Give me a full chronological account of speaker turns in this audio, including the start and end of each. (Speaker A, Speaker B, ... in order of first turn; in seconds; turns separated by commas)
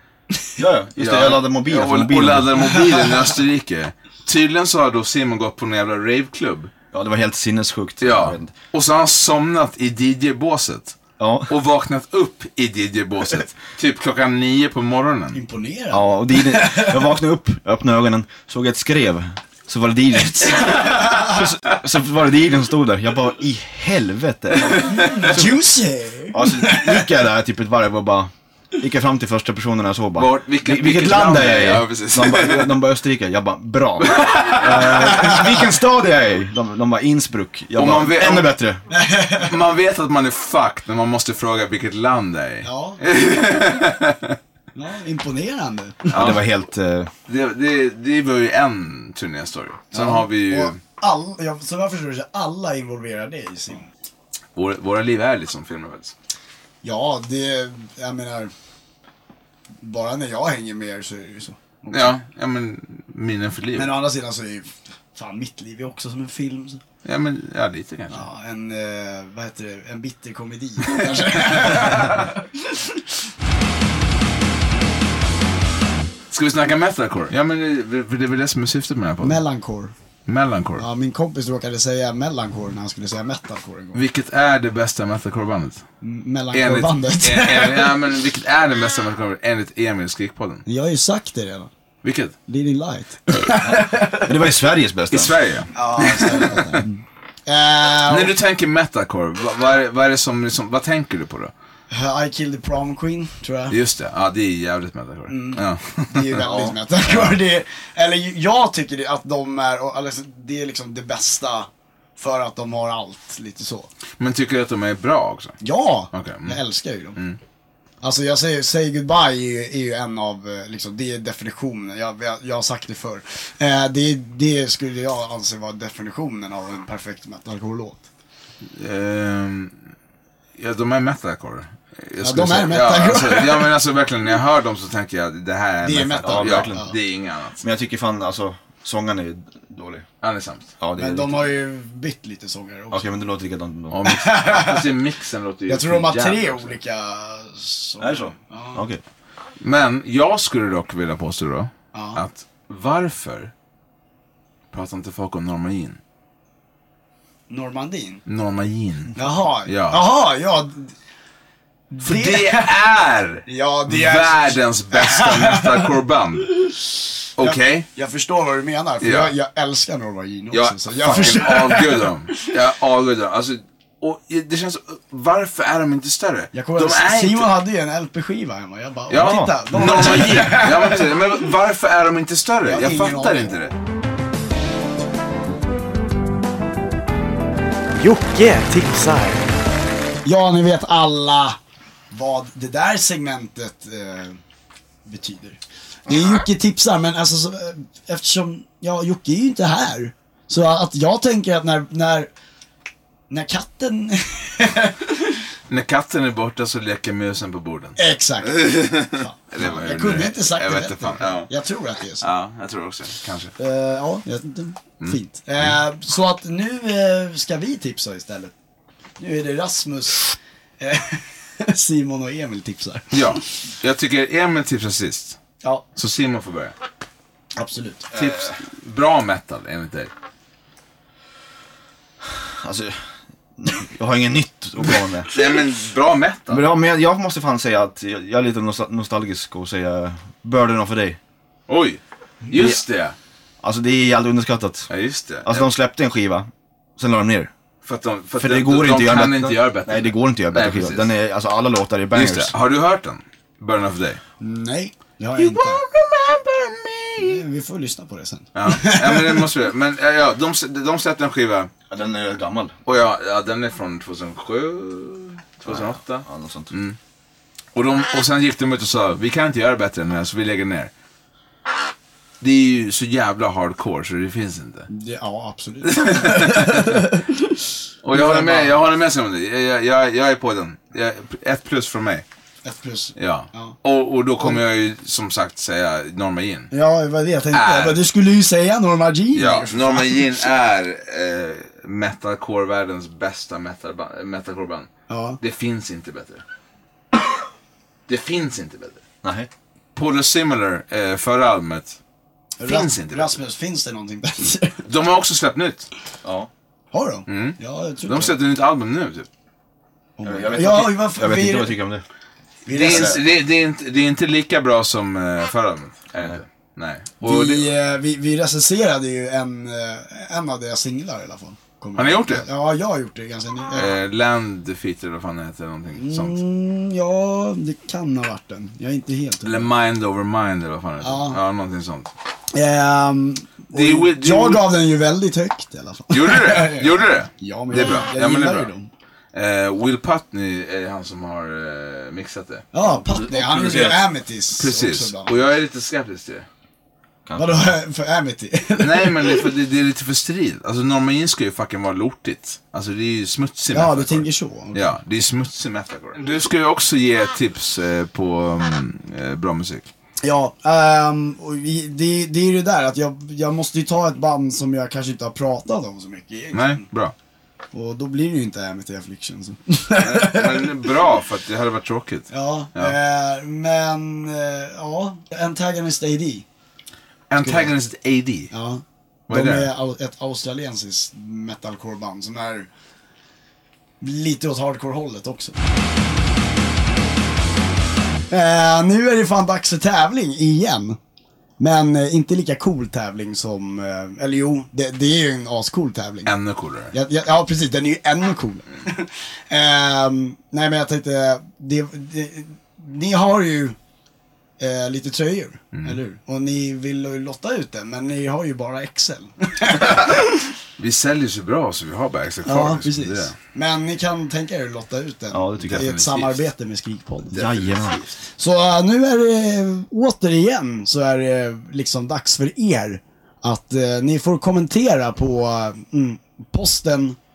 Speaker A: 0.6-2.6, Speaker B: 1.0-6.7, Speaker C: 2.7-3.3, Speaker A: 6.9-8.5, Speaker B: 8.0-15.4, Speaker A: 11.2-11.5, Speaker C: 15.3-17.0, Speaker A: 15.9-25.4, Speaker C: 20.6-21.4, Speaker B: 24.6-25.4, Speaker C: 24.8-27.1, Speaker A: 26.3-38.8, Speaker B: 30.2-32.8, Speaker B: 34.0-35.1, Speaker C: 34.6-35.6, Speaker B: 37.8-38.5, Speaker C: 38.9-39.5, Speaker B: 39.3-44.4, Speaker C: 42.6-43.0, Speaker C: 44.7-46.2, Speaker B: 46.1-46.4, Speaker A: 46.1-47.1, Speaker B: 47.3-50.8, Speaker C: 49.9-53.9, Speaker B: 54.5-56.1, Speaker C: 56.8-58.5, Speaker C: 59.8-62.1, Speaker B: 61.9-63.9, Speaker C: 63.8-66.8, Speaker B: 67.0-68.2, Speaker C: 68.1-73.0, Speaker B: 70.8-72.1, Speaker B: 76.3-79.4, Speaker C: 79.2-79.9, Speaker B: 80.3-80.8, Speaker C: 80.8-84.0, Speaker B: 83.9-85.8, Speaker C: 86.0-88.0, Speaker B: 86.5-90.6, Speaker C: 90.6-91.7, Speaker B: 92.0-92.3, Speaker C: 92.5-94.3, Speaker A: 93.8-95.3, Speaker B: 95.1-96.8, Speaker C: 95.7-98.3, Speaker B: 98.1-101.5, Speaker C: 101.9-103.8, Speaker B: 103.7-107.4, Speaker C: 105.3-113.9, Speaker A: 106.4-106.7, Speaker B: 114.2-115.6, Speaker C: 115.6-117.2, Speaker B: 116.1-116.6, Speaker C: 118.0-128.1, Speaker B: 128.6-129.8, Speaker B: 130.6-137.6, Speaker C: 132.2-133.7, Speaker C: 135.8-136.9, Speaker A: 136.2-136.9, Speaker A: 137.6-140.1, Speaker B: 140.2-140.7, Speaker A: 140.8-141.5, Speaker C: 140.9-143.1, Speaker A: 142.9-144.0, Speaker B: 143.9-146.7, Speaker C: 144.0-144.9, Speaker C: 145.7-148.8, Speaker A: 148.0-149.0, Speaker B: 149.6-153.5, Speaker C: 151.9-152.2, Speaker B: 154.7-156.0, Speaker C: 157.5-158.2, Speaker B: 158.2-160.0, Speaker C: 159.2-160.9, Speaker C: 161.9-162.7, Speaker B: 162.0-166.6, Speaker C: 163.4-165.9, Speaker B: 167.4-167.8, Speaker C: 167.4-172.4, Speaker B: 169.0-169.3, Speaker B: 170.5-177.5, Speaker C: 176.5-181.2, Speaker B: 179.1-183.7, Speaker A: 179.2-179.9, Speaker C: 182.6-183.6, Speaker C: 188.0-189.3, Speaker C: 190.2-191.6, Speaker C: 192.1-194.4, Speaker C: 195.1-202.3, Speaker C: 203.3-205.3, Speaker B: 205.7-211.5, Speaker C: 208.0-212.3, Speaker B: 212.2-213.5, Speaker C: 213.6-218.5, Speaker C: 219.2-223.4, Speaker B: 223.1-225.4, Speaker B: 225.9-226.7, Speaker C: 227.6-228.1, Speaker B: 228.1-230.1, Speaker A: 232.2-233.0, Speaker A: 233.6-235.4, Speaker B: 235.3-236.6, Speaker A: 236.5-241.2, Speaker B: 241.7-243.1, Speaker A: 243.6-244.9, Speaker B: 244.9-245.7, Speaker A: 245.4-247.5, Speaker B: 247.8-251.1, Speaker A: 248.4-252.5, Speaker B: 252.1-254.2, Speaker C: 254.4-255.8, Speaker B: 255.3-257.4, Speaker C: 257.2-259.5, Speaker B: 258.5-261.7, Speaker A: 261.9-262.8, Speaker B: 262.8-267.0, Speaker A: 265.6-266.7, Speaker B: 267.7-270.9, Speaker B: 272.4-274.9, Speaker C: 274.9-277.6, Speaker B: 275.8-277.1, Speaker B: 278.0-282.2, Speaker C: 278.1-278.8, Speaker C: 282.6-283.8, Speaker B: 283.2-286.7, Speaker C: 286.7-290.4, Speaker B: 287.5-288.0, Speaker B: 289.3-296.4, Speaker C: 295.1-295.4, Speaker B: 298.1-299.0, Speaker A: 299.2-299.5, Speaker B: 299.9-302.0, Speaker C: 302.6-304.8, Speaker B: 302.6-303.4, Speaker B: 304.8-305.9, Speaker A: 306.2-306.5, Speaker C: 306.9-308.4, Speaker B: 307.3-309.3, Speaker C: 310.2-311.8, Speaker A: 310.2-312.0, Speaker C: 312.6-313.2, Speaker B: 312.7-317.7, Speaker A: 312.8-313.2, Speaker C: 317.2-324.0, Speaker B: 322.0-322.5, Speaker B: 323.7-326.4, Speaker C: 326.0-329.7, Speaker B: 329.4-332.1, Speaker C: 331.0-331.4, Speaker C: 332.5-338.9, Speaker B: 333.7-334.6, Speaker B: 336.1-338.7, Speaker B: 339.3-346.4, Speaker C: 342.7-345.4, Speaker A: 347.2-347.7, Speaker C: 347.4-349.5, Speaker B: 348.8-359.9, Speaker C: 353.7-354.9, Speaker C: 360.2-366.8, Speaker B: 366.5-367.1, Speaker C: 367.7-370.9, Speaker B: 370.0-372.9, Speaker C: 372.3-376.4, Speaker B: 377.3-378.5, Speaker C: 377.4-377.7, Speaker C: 378.5-382.7, Speaker B: 379.3-379.7, Speaker C: 384.0-385.6, Speaker C: 388.3-391.0, Speaker C: 391.6-396.3, Speaker B: 396.2-396.9, Speaker C: 396.9-403.8, Speaker C: 404.6-410.4, Speaker B: 405.7-406.0, Speaker B: 410.8-413.4, Speaker C: 412.4-417.4, Speaker A: 415.3-415.9, Speaker B: 415.6-416.4, Speaker B: 417.3-418.1, Speaker A: 417.3-418.0, Speaker C: 418.3-427.2